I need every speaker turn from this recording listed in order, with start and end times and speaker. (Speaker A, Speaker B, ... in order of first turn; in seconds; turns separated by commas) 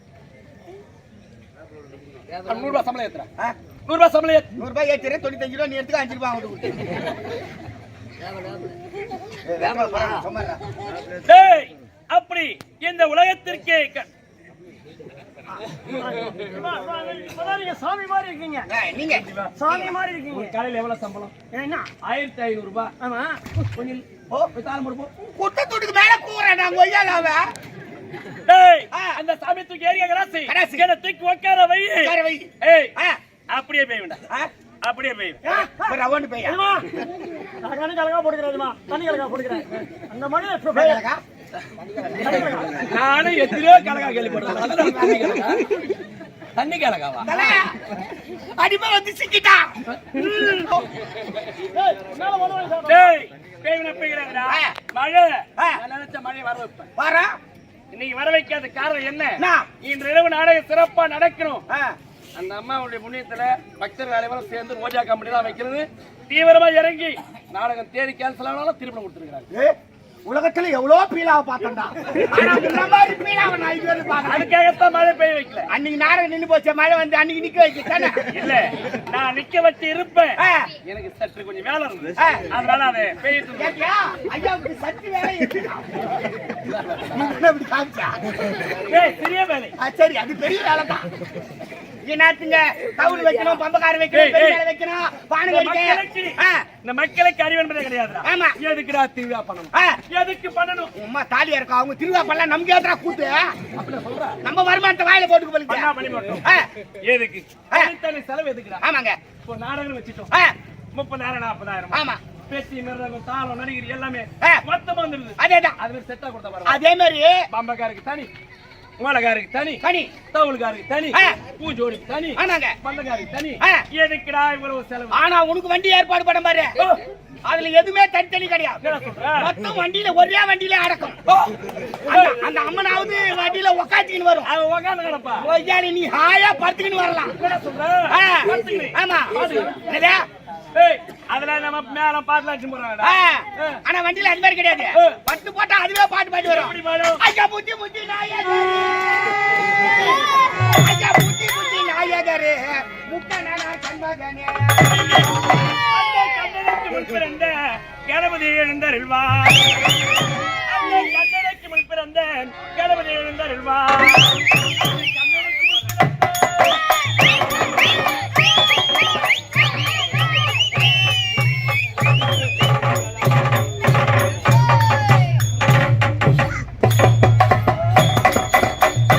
Speaker A: 2.3-3.3, Speaker A: 3.9-4.5, Speaker B: 4.6-6.9, Speaker B: 9.4-10.6, Speaker A: 11.2-14.1, Speaker C: 15.9-18.7, Speaker B: 18.7-19.2, Speaker A: 19.1-21.3, Speaker C: 19.6-20.5, Speaker C: 21.5-21.9, Speaker A: 22.0-22.9, Speaker C: 23.0-23.4, Speaker A: 23.6-25.1, Speaker B: 25.3-27.4, Speaker A: 28.4-32.9, Speaker B: 30.4-30.8, Speaker B: 32.0-33.2, Speaker A: 33.5-34.2, Speaker A: 34.8-35.5, Speaker B: 35.5-36.6, Speaker C: 35.5-36.9, Speaker C: 37.6-41.0, Speaker B: 40.7-41.2, Speaker C: 42.2-42.8, Speaker A: 42.8-45.9, Speaker B: 44.6-45.5, Speaker A: 46.5-47.5, Speaker B: 47.2-47.8, Speaker B: 48.5-49.7, Speaker A: 50.0-50.8, Speaker C: 51.7-53.1, Speaker A: 52.9-56.9, Speaker B: 54.5-54.7, Speaker B: 57.0-57.4, Speaker A: 57.9-61.6, Speaker B: 59.4-59.7, Speaker B: 61.7-62.0, Speaker A: 62.4-69.5, Speaker B: 69.5-74.5, Speaker A: 72.1-72.6, Speaker A: 74.2-75.7, Speaker B: 75.7-78.2, Speaker A: 78.2-83.8, Speaker B: 80.4-80.7, Speaker B: 83.6-85.9, Speaker A: 86.6-87.2, Speaker B: 87.1-88.2, Speaker A: 88.8-89.8, Speaker B: 89.8-91.1, Speaker B: 92.0-96.7, Speaker A: 94.1-94.6, Speaker A: 95.5-100.9, Speaker B: 98.2-98.5, Speaker B: 101.0-103.5, Speaker A: 103.7-104.4, Speaker B: 104.4-105.9, Speaker A: 105.7-106.5, Speaker A: 107.0-108.8, Speaker B: 108.8-109.2, Speaker A: 109.4-110.3, Speaker A: 110.9-116.8, Speaker B: 111.9-112.2, Speaker B: 115.4-115.8, Speaker B: 116.6-117.4, Speaker A: 117.5-118.3, Speaker A: 119.0-125.2, Speaker B: 119.8-120.1, Speaker B: 121.1-121.4, Speaker B: 122.3-122.7, Speaker B: 125.1-126.7, Speaker B: 127.4-128.8, Speaker A: 128.8-129.5, Speaker B: 129.4-131.2, Speaker A: 132.1-132.5, Speaker B: 132.1-134.5, Speaker A: 134.4-135.5, Speaker B: 135.4-137.3, Speaker A: 137.4-139.9, Speaker B: 138.1-140.2, Speaker A: 140.7-143.8, Speaker B: 143.0-155.5, Speaker A: 144.9-145.2, Speaker A: 146.4-147.2, Speaker A: 154.9-159.8, Speaker A: 160.7-166.2